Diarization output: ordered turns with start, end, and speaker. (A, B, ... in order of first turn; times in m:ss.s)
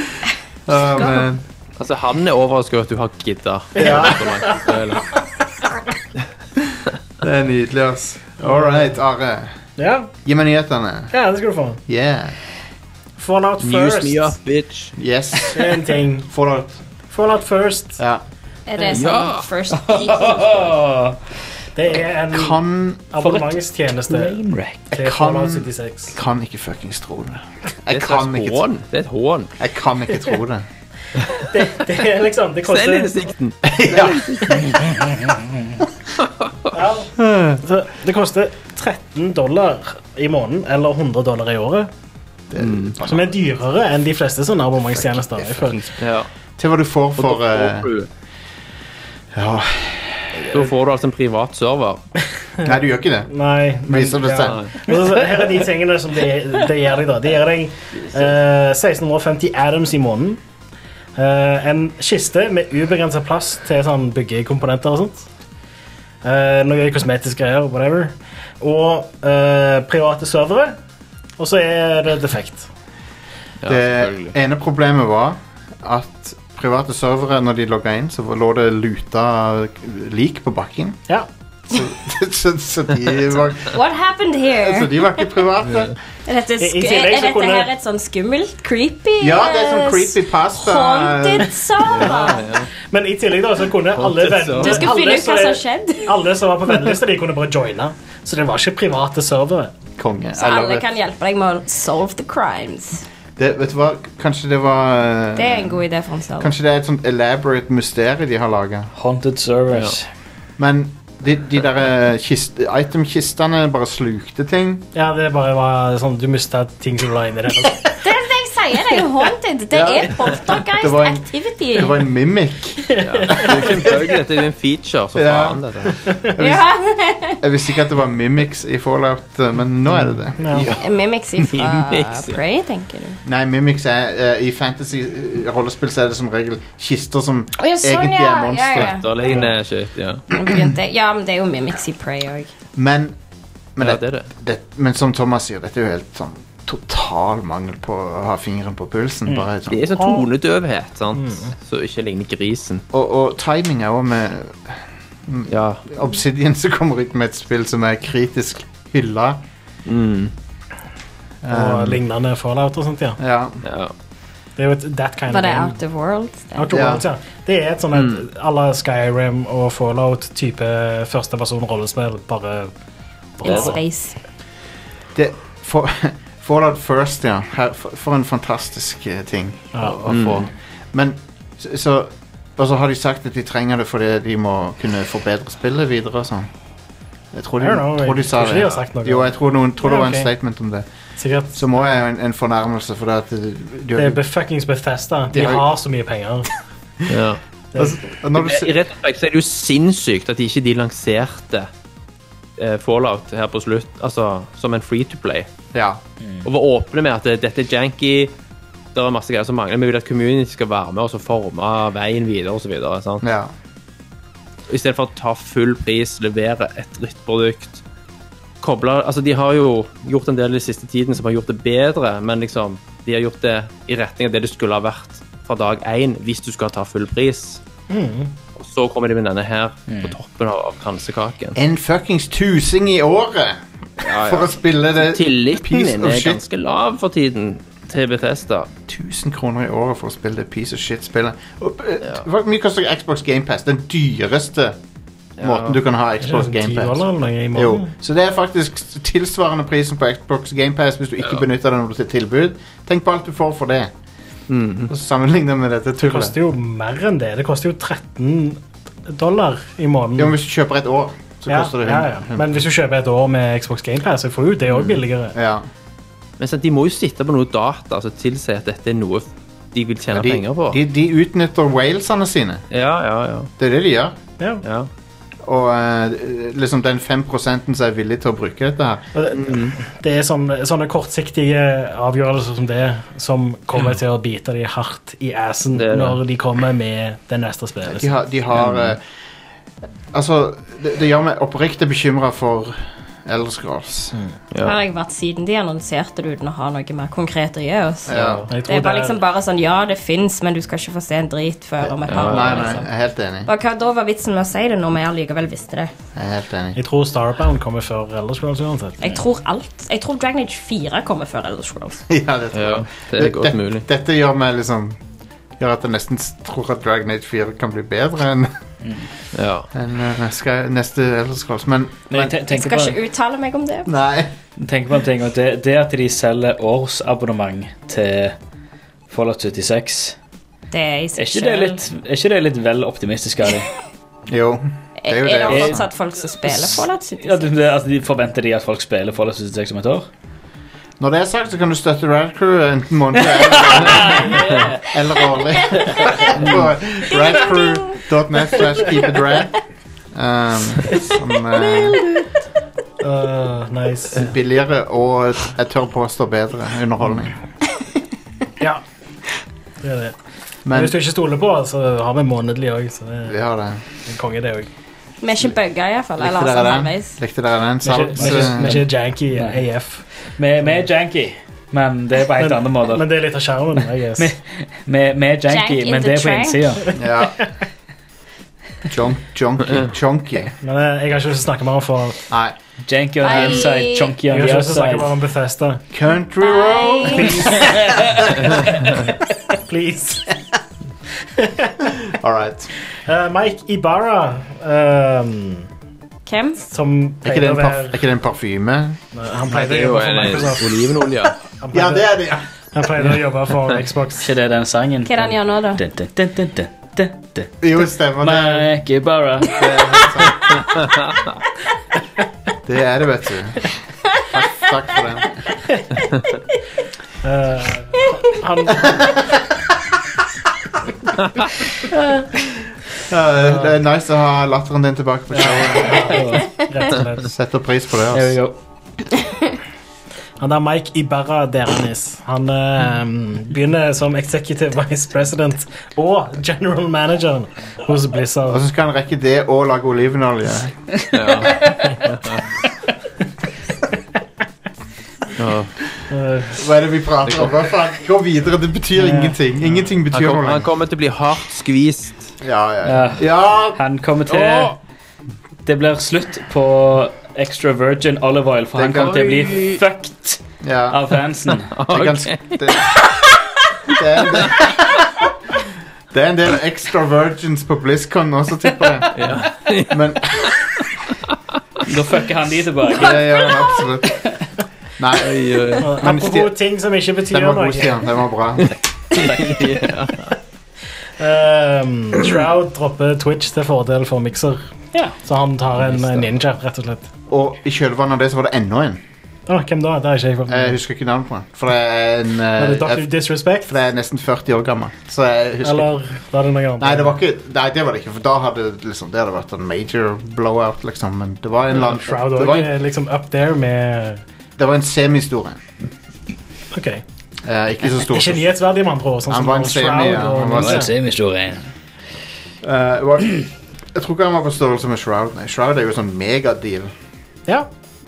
0:00.7-0:01.4 A
0:01.8-0:05.0 B
0:03.8-0:04.2 A
0:03.8-0:04.6 C
0:07.2-0:09.5 A
0:08.4-0:08.9 C
0:09.8-0:10.1 C
0:10.2-0:11.1 A
0:11.1-0:11.8 C
0:11.9-0:12.3 A
0:13.2-0:14.4 C
0:13.6-0:14.9 B
0:15.0-0:15.7 A
0:15.5-0:16.3 C
0:16.3-0:16.8 A
0:17.1-0:18.0 C
0:18.0-0:18.2 A
0:18.7-0:20.7 D
0:18.9-0:19.4 B
0:19.8-0:21.2 E
0:21.7-0:22.6 C
0:22.3-0:23.1 A
0:23.1-0:24.4 C
0:23.2-0:23.6 E
0:24.1-0:24.9 E
0:24.9-0:26.1 C
0:24.9-0:28.6 A
0:27.9-0:29.5 B
0:29.6-0:30.6 A
0:31.5-0:33.3 C
0:32.7-0:34.5 B
0:33.6-0:34.7 A
0:36.7-0:41.9 C
0:37.2-0:37.6 A
0:42.5-0:43.4 A
0:42.6-0:42.9 B
0:43.0-0:45.8 C
0:44.9-0:45.9 A
0:46.0-0:46.3 B
0:46.6-0:47.9 A
0:47.2-0:48.1 B
0:49.3-0:50.6 A
0:50.3-0:52.0 B
0:52.6-0:53.3 A
0:53.3-1:00.4 C
0:53.8-0:54.6 A
0:54.5-0:54.8 B
1:01.2-1:05.3 C
1:06.2-1:10.8 C
1:11.4-1:12.7 C
1:13.6-1:14.3 B
1:13.6-1:21.0 A
1:21.7-1:23.8 A
1:23.7-1:25.3 D
1:24.6-1:26.0 A
1:26.2-1:32.5 D
1:26.6-1:27.7 C
1:29.2-1:31.6 A
1:31.9-1:32.7 B
1:32.9-1:39.7 C
1:34.0-1:34.9 B
1:34.6-1:36.2 D
1:40.0-1:40.8 A
1:40.4-1:43.0 D
1:43.4-1:45.8 A
1:45.4-1:46.5 D
1:46.4-1:48.9 A
1:49.0-1:50.1 E
1:50.6-1:54.9 A
1:54.9-1:57.9 C
1:58.0-2:01.9 D
1:59.7-2:03.8 A
2:02.9-2:04.0 C
2:03.0-2:05.9 B
2:05.1-2:05.6 A
2:06.3-2:06.6 A
2:06.4-2:07.4 D
2:07.4-2:10.6 A
2:10.4-2:10.7 C
2:10.5-2:10.8 B
2:10.8-2:13.2 D
2:11.4-2:12.4 B
2:13.2-2:18.9 A
2:17.6-2:19.1 D
2:18.8-2:20.2 B
2:20.3-2:22.5 D
2:22.8-2:23.1 A
2:23.8-2:29.8 A
2:23.8-2:24.3 B
2:29.7-2:32.8 B
2:30.0-2:30.2 C
2:31.2-2:31.5 C
2:32.9-2:39.4 A
2:35.5-2:35.8 B
2:39.8-2:40.3 B
2:41.4-2:42.0 A
2:41.5-2:43.2 C
2:43.2-2:43.6 A
2:43.6-2:43.9 B
2:44.6-2:45.8 C
2:45.3-2:46.7 D
2:46.5-2:52.7 C
2:46.7-2:47.0 A
2:47.9-2:48.2 B
2:53.4-2:53.8 C
2:53.4-2:54.2 D
2:55.1-3:06.5 A
2:59.7-3:00.0 C
3:00.1-3:00.5 B
3:07.3-3:10.8 A
3:07.6-3:10.3 C
3:11.2-3:11.8 C
3:11.5-3:14.2 A
3:14.0-3:16.5 C
3:15.3-3:15.7 A
3:17.1-3:17.4 B
3:17.7-3:18.7 A
3:18.3-3:21.7 B
3:22.6-3:25.5 B
3:25.7-3:26.0 A
3:26.4-3:28.3 B
3:28.9-3:33.2 B
3:33.2-3:33.5 A
3:34.7-3:37.8 B
3:38.6-3:47.6 B
3:47.9-3:48.3 C
3:48.6-3:51.6 B
3:49.9-3:50.2 E
3:51.5-3:56.4 A
3:54.0-3:58.7 B
3:58.9-4:04.8 A
4:05.4-4:05.8 B
4:05.4-4:13.9 A
4:06.2-4:07.9 C
4:14.5-4:14.9 B
4:14.9-4:16.3 A
4:16.0-4:20.4 C
4:20.2-4:22.5 A
4:21.5-4:25.3 C
4:24.7-4:24.9 B
4:25.3-4:25.7 A
4:26.4-4:30.8 B
4:30.1-4:32.6 A
4:32.7-4:33.5 B
4:33.6-4:34.2 A
4:34.6-4:34.9 B
4:35.4-4:39.1 A
4:39.2-4:48.1 C
4:39.3-4:39.8 B
4:45.7-4:46.2 B
4:47.8-4:49.0 A
4:48.5-4:48.9 B
4:50.1-4:54.2 A
4:54.6-5:02.8 D
4:58.0-4:58.5 A
4:58.2-4:59.2 C
5:01.8-5:03.5 A
5:02.1-5:02.7 B
5:03.4-5:05.9 D
5:06.1-5:06.8 A
5:06.8-5:09.0 C
5:09.0-5:12.0 D
5:12.1-5:15.0 A
5:12.5-5:13.8 B
5:15.6-5:18.5 A
5:19.3-5:19.7 B
5:19.7-5:22.3 A
5:22.1-5:23.0 E
5:22.5-5:23.9 D
5:23.8-5:24.3 A
5:24.6-5:28.3 E
5:29.1-5:30.2 E
5:30.7-5:31.8 D
5:31.2-5:33.7 E
5:34.3-5:35.8 A
5:35.0-5:37.5 D
5:35.5-5:35.8 E
5:36.5-5:40.1 E
5:41.0-5:49.5 A
5:43.7-5:44.8 E
5:47.1-5:48.0 D
5:50.1-5:52.0 A
5:53.0-5:54.3 C
5:54.1-5:57.4 A
5:59.8-6:00.1 C
6:00.6-6:01.0 A
6:00.7-6:03.4 C
6:03.2-6:03.8 A
6:04.0-6:04.7 C
6:05.2-6:07.2 D
6:06.2-6:08.8 A
6:07.8-6:10.0 C
6:08.2-6:09.6 E
6:10.4-6:13.1 E
6:12.4-6:14.3 C
6:14.2-6:17.0 E
6:15.5-6:16.6 D
6:16.9-6:17.4 A
6:18.9-6:20.5 A
6:20.6-6:22.2 C
6:22.3-6:22.6 A
6:22.8-6:25.1 E
6:23.2-6:24.1 D
6:24.3-6:25.8 C
6:25.9-6:27.6 A
6:26.4-6:27.3 D
6:27.2-6:27.6 C
6:27.6-6:28.2 E
6:29.6-6:30.4 C
6:31.4-6:31.7 C
6:32.0-6:32.7 A
6:33.0-6:35.7 C
6:36.2-6:36.6 D
6:36.7-6:38.0 C
6:37.2-6:39.0 A
6:39.1-6:41.0 C
6:39.5-6:41.3 B
6:41.6-6:42.1 C
6:41.7-6:42.4 A
6:42.7-6:44.3 C
6:44.2-6:47.5 E
6:45.0-6:45.8 D
6:47.6-6:48.7 A
6:48.2-6:49.6 E
6:49.6-6:50.6 A
6:52.6-6:55.4 A
6:57.2-6:59.2 C
7:03.1-7:06.2 A
7:05.3-7:07.3 C
7:06.1-7:06.6 E
7:07.3-7:08.3 A
7:08.1-7:08.5 E
7:10.4-7:18.6 C
7:18.4-7:20.8 A
7:21.1-7:22.4 B
7:21.6-7:22.0 E
7:25.4-7:25.7 B
7:26.1-7:26.6 C
7:26.5-7:30.7 A
7:29.0-7:29.4 C
7:30.1-7:32.3 B
7:32.4-7:33.8 A
7:32.8-7:34.8 E
7:34.3-7:34.7 B
7:35.6-7:40.4 E
7:38.8-7:39.4 A
7:38.9-7:39.8 B
7:40.6-7:41.0 A
7:40.9-7:41.7 E
7:41.7-7:42.8 B
7:41.9-7:43.0 A
7:43.9-7:45.1 A
7:46.1-7:50.6 A
7:49.1-7:50.5 B
7:51.9-7:53.5 E
7:52.9-7:54.2 A
7:55.0-7:56.6 A
7:55.2-7:55.9 B
7:55.8-7:58.0 C
7:57.3-7:58.7 A
7:58.7-8:00.3 B
7:59.1-7:59.6 E
8:01.2-8:04.6 C
8:05.2-8:07.1 C
8:07.3-8:09.0 A
8:09.5-8:10.8 C
8:10.5-8:13.1 A
8:12.6-8:13.7 C
8:13.6-8:16.0 A
8:15.6-8:17.2 C
8:16.8-8:22.7 A
8:21.7-8:24.2 C
8:24.6-8:25.6 A
8:26.7-8:27.0 C
8:27.4-8:28.5 A
8:28.1-8:30.9 C
8:29.3-8:30.9 A
8:30.4-8:31.6 E
8:32.6-8:36.9 A